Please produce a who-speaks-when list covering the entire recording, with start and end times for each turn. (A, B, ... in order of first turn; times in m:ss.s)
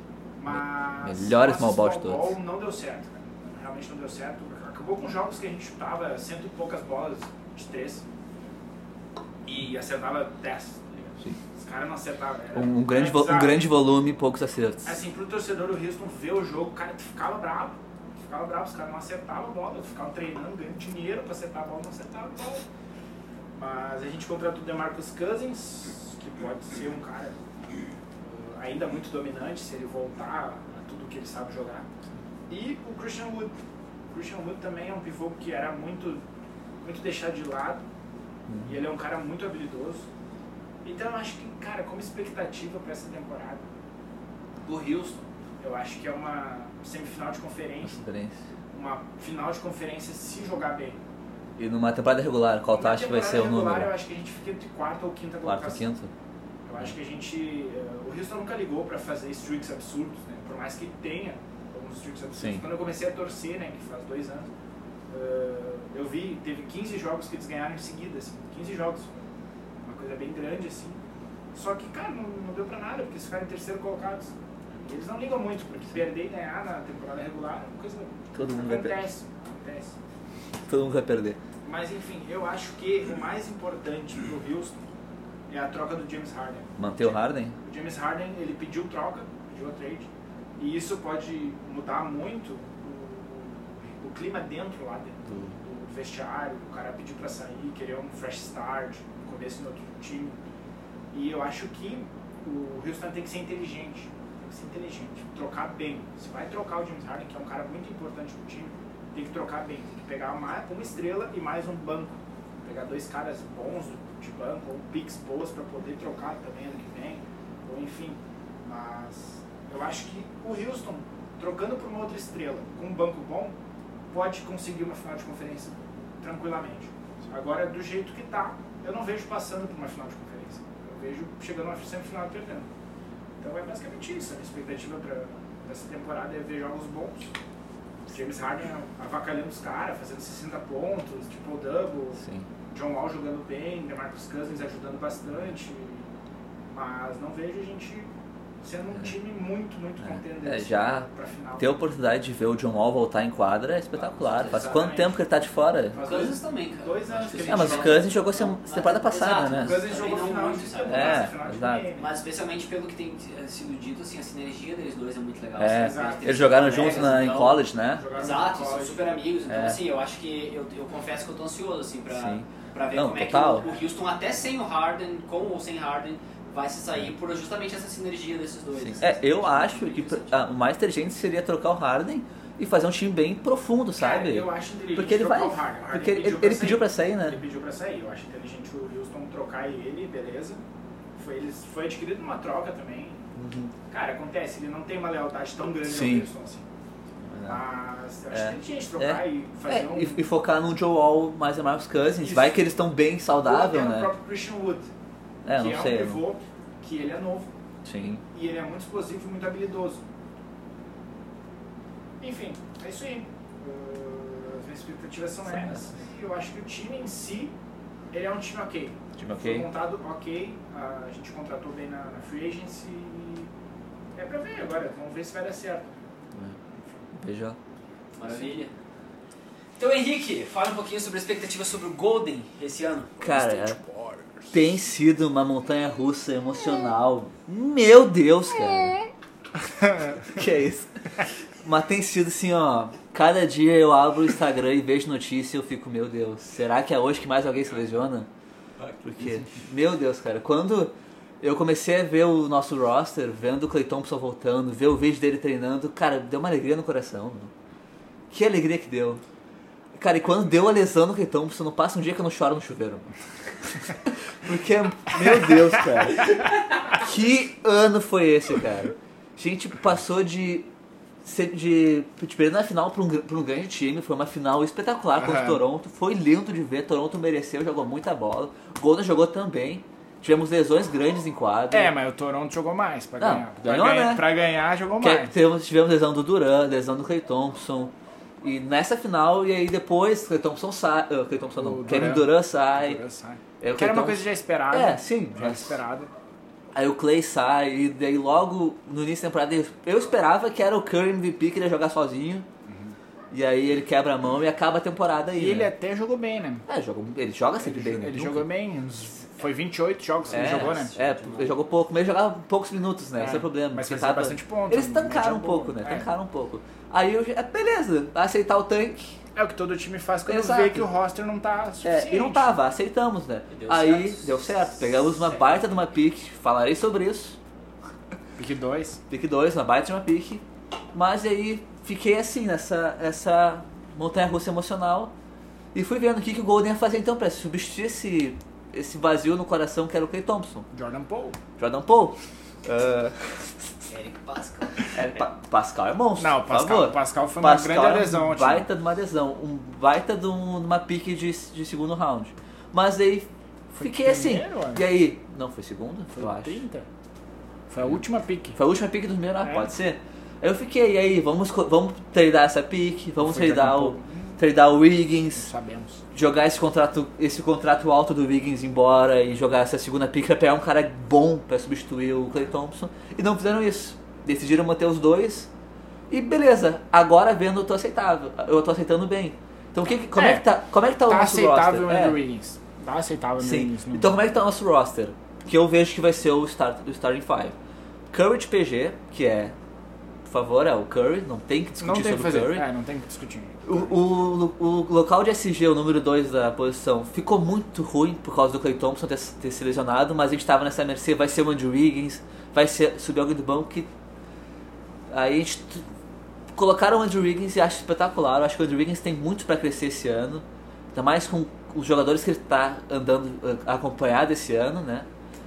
0:00.4-0:08.0 A
0:00.5-0:02.3 B
0:09.4-0:13.7 A
0:12.5-0:15.0 B
0:14.8-0:22.6 A
0:23.5-0:27.4 A
0:28.2-0:31.9 A
0:32.5-0:33.5 A
0:34.1-0:36.2 A
0:36.8-0:37.8 A
0:38.5-0:38.7 B
0:38.6-0:40.1 A
0:40.8-0:43.6 A
0:44.6-0:48.0 A
0:47.8-0:48.4 B
0:48.7-0:51.0 A
0:51.6-0:53.9 B
0:52.7-0:55.9 A
0:55.4-0:56.1 B
0:56.6-1:04.5 A
1:02.4-1:02.6 B
1:05.1-1:09.2 A
1:09.8-1:11.0 A
1:11.5-1:20.0 A
1:18.3-1:19.0 B
1:20.7-1:21.4 B
1:21.6-1:24.8 A
1:25.5-1:30.1 A
1:26.8-1:27.6 B
1:30.6-1:40.4 A
1:35.3-1:35.5 B
1:41.1-2:03.6 A
2:04.1-2:12.7 A
2:13.4-2:17.3 A
2:18.1-2:26.1 A
2:22.2-2:22.5 B
2:26.7-2:28.1 A
2:28.6-2:31.8 A
2:30.0-2:36.0 B
2:34.0-2:35.2 A
2:35.9-2:38.1 A
2:36.0-2:41.3 C
2:37.5-2:39.8 B
2:39.5-2:42.1 A
2:40.9-2:41.9 B
2:42.0-2:47.6 C
2:45.6-2:48.0 B
2:45.7-2:49.2 A
2:48.1-3:00.4 C
2:49.5-2:49.8 B
2:52.1-2:53.6 B
2:58.8-3:07.4 B
3:04.0-3:10.6 A
3:11.2-3:13.3 A
3:13.4-3:13.7 B
3:13.9-3:16.7 A
3:15.8-3:16.3 B
3:17.2-3:17.6 B
3:17.4-3:20.2 A
3:18.3-3:24.1 B
3:22.2-3:22.6 A
3:23.4-3:24.9 A
3:25.4-3:26.2 B
3:25.5-3:27.5 A
3:27.8-3:28.2 B
3:28.3-3:30.0 A
3:32.2-3:37.5 A
3:38.1-3:43.5 A
3:39.2-3:39.7 B
3:44.1-3:46.0 A
3:47.1-3:47.6 B
3:48.2-3:48.7 C
3:49.8-3:53.2 C
3:53.2-3:53.8 B
3:53.3-3:54.5 A
3:54.5-3:59.0 B
4:00.2-4:00.9 B
4:01.6-4:08.3 B
4:09.0-4:17.5 B
4:18.3-4:19.2 B
4:19.9-4:23.1 B
4:23.8-4:30.7 B
4:31.2-4:41.9 B
4:35.2-4:35.6 A
4:41.7-4:45.3 A
4:43.2-4:44.3 B
4:45.0-4:53.0 B
4:51.6-4:56.1 A
4:53.6-4:55.8 B
4:56.7-5:02.4 B
5:02.6-5:03.0 A
5:03.3-5:05.7 B
5:05.4-5:06.6 A
5:06.7-5:08.5 B
5:07.6-5:10.9 A
5:10.3-5:11.5 C
5:10.3-5:19.2 B
5:13.2-5:16.1 A
5:19.3-5:22.6 A
5:20.3-5:20.9 B
5:21.8-5:27.4 B
5:23.5-5:25.6 C
5:28.4-5:29.0 A
5:29.1-5:35.1 B
5:35.7-5:40.7 B
5:40.7-5:41.4 A
5:41.6-5:43.7 B
5:43.9-5:45.0 C
5:44.9-5:56.6 B
5:46.2-5:48.7 A
5:53.8-5:54.9 A
5:56.1-5:56.9 A
5:57.7-5:58.6 A
5:58.5-6:05.5 B
5:59.4-5:59.7 A
6:03.2-6:04.4 A
6:05.3-6:06.0 A
6:06.1-6:15.5 B
6:16.1-6:22.2 B
6:20.1-6:20.5 A
6:21.0-6:24.2 A
6:23.4-6:27.6 B
6:28.1-6:29.5 B
6:30.2-6:32.6 B
6:31.8-6:33.9 A
6:33.6-6:43.9 B
6:45.1-6:45.8 B
6:46.5-6:55.1 B